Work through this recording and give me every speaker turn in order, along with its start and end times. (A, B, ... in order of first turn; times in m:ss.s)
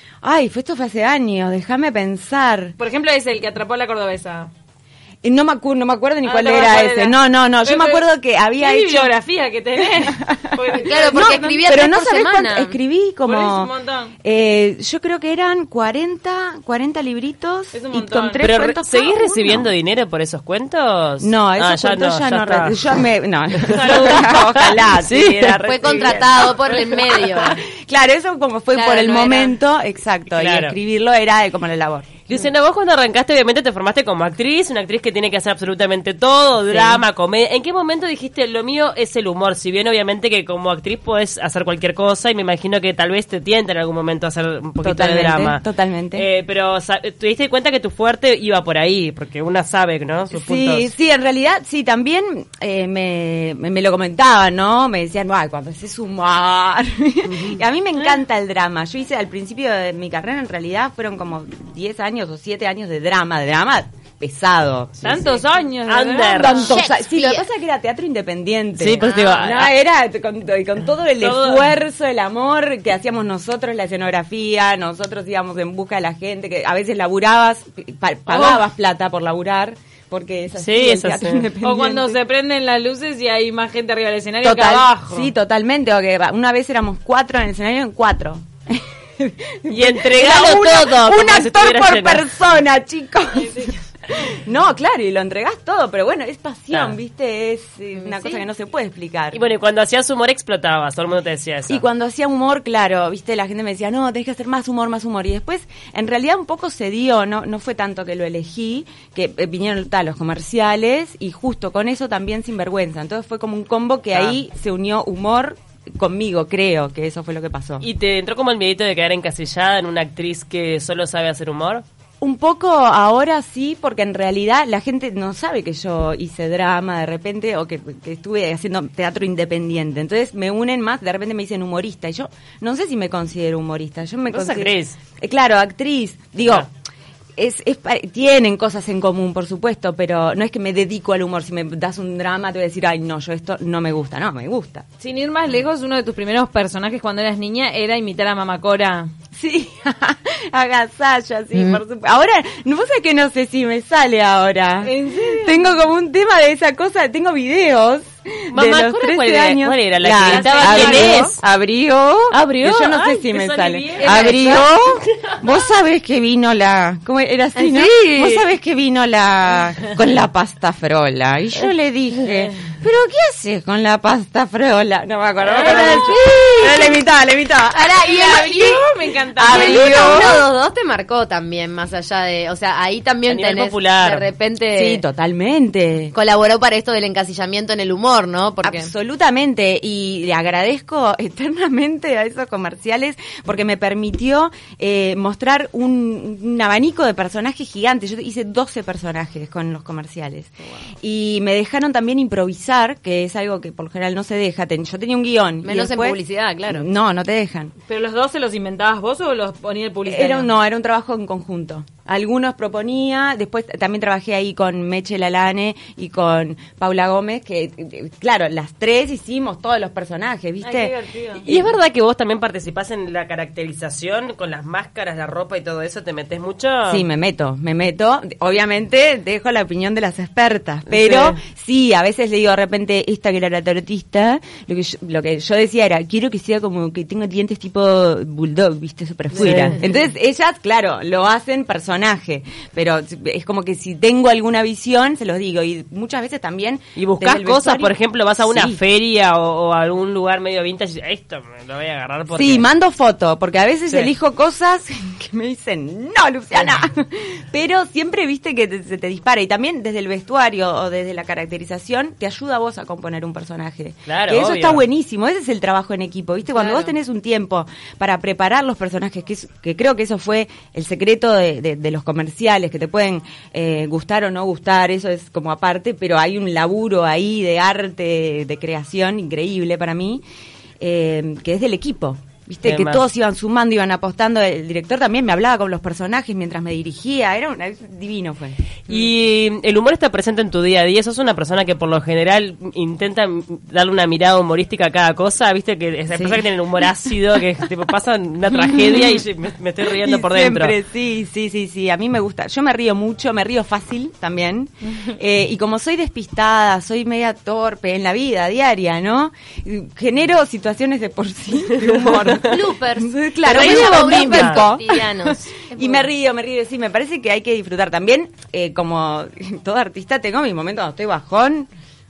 0:00.2-0:02.8 A
0:02.8-0:04.5 B
0:05.2-0:09.1 A
0:06.2-0:08.0 B
0:08.6-0:11.3 B
0:09.8-0:13.7 A
0:10.8-0:12.8 C
0:13.2-0:14.1 B
0:14.2-0:19.7 A
0:17.7-0:18.4 B
0:18.4-0:22.8 D
0:21.2-0:26.6 A
0:23.6-0:26.6 D
0:25.6-0:27.6 C
0:27.2-0:32.3 A
0:28.7-0:29.6 C
0:30.3-0:30.8 D
0:32.3-0:45.6 D
0:36.7-0:37.0 A
0:44.8-0:46.3 A
0:46.2-0:50.9 D
0:50.3-1:05.4 A
0:57.3-0:57.6 D
1:05.0-1:06.7 B
1:05.9-1:06.6 D
1:06.4-1:22.2 A
1:06.5-1:07.4 C
1:08.8-1:09.7 D
1:09.0-1:09.5 C
1:11.2-1:11.8 D
1:18.3-1:18.6 B
1:20.6-1:21.5 D
1:21.6-1:25.3 B
1:24.4-1:39.5 A
1:29.7-1:32.2 D
1:33.4-1:33.8 B
1:38.0-1:38.4 C
1:39.3-1:41.8 D
1:41.7-1:57.8 A
1:54.1-1:54.4 D
1:57.8-2:01.8 D
2:02.2-2:16.7 A
2:14.3-2:15.0 D
2:17.4-2:24.8 A
2:25.0-2:29.1 B
2:29.3-2:58.8 A
2:31.5-2:31.8 C
2:34.8-2:35.7 B
2:38.5-2:41.4 D
2:40.3-2:41.3 C
2:40.4-2:40.8 B
2:42.3-2:45.5 D
2:43.8-2:44.7 B
2:47.6-2:48.4 C
2:55.5-2:56.1 B
2:55.6-2:57.0 C
2:57.7-2:58.8 C
2:58.1-3:00.3 B
2:59.4-3:00.4 A
2:59.5-3:05.0 C
3:03.3-3:04.3 D
3:04.7-3:06.2 A
3:06.1-3:08.9 C
3:08.6-3:26.2 A
3:25.6-3:26.9 C
3:26.7-3:27.7 A
3:27.9-3:30.5 B
3:30.1-3:41.0 A
3:40.6-3:41.4 B
3:41.5-3:47.0 D
3:46.9-4:08.8 A
3:50.9-3:51.4 D
3:59.4-3:59.8 D
4:07.0-4:12.7 D
4:12.3-4:40.2 A
4:24.1-4:24.8 D
4:26.5-4:26.9 C
4:40.8-4:49.1 A
4:42.6-4:43.0 D
4:48.9-5:00.8 D
4:58.7-4:59.1 A
5:00.0-5:21.7 A
5:11.8-5:12.4 D
5:12.4-5:16.0 C
5:13.4-5:14.6 D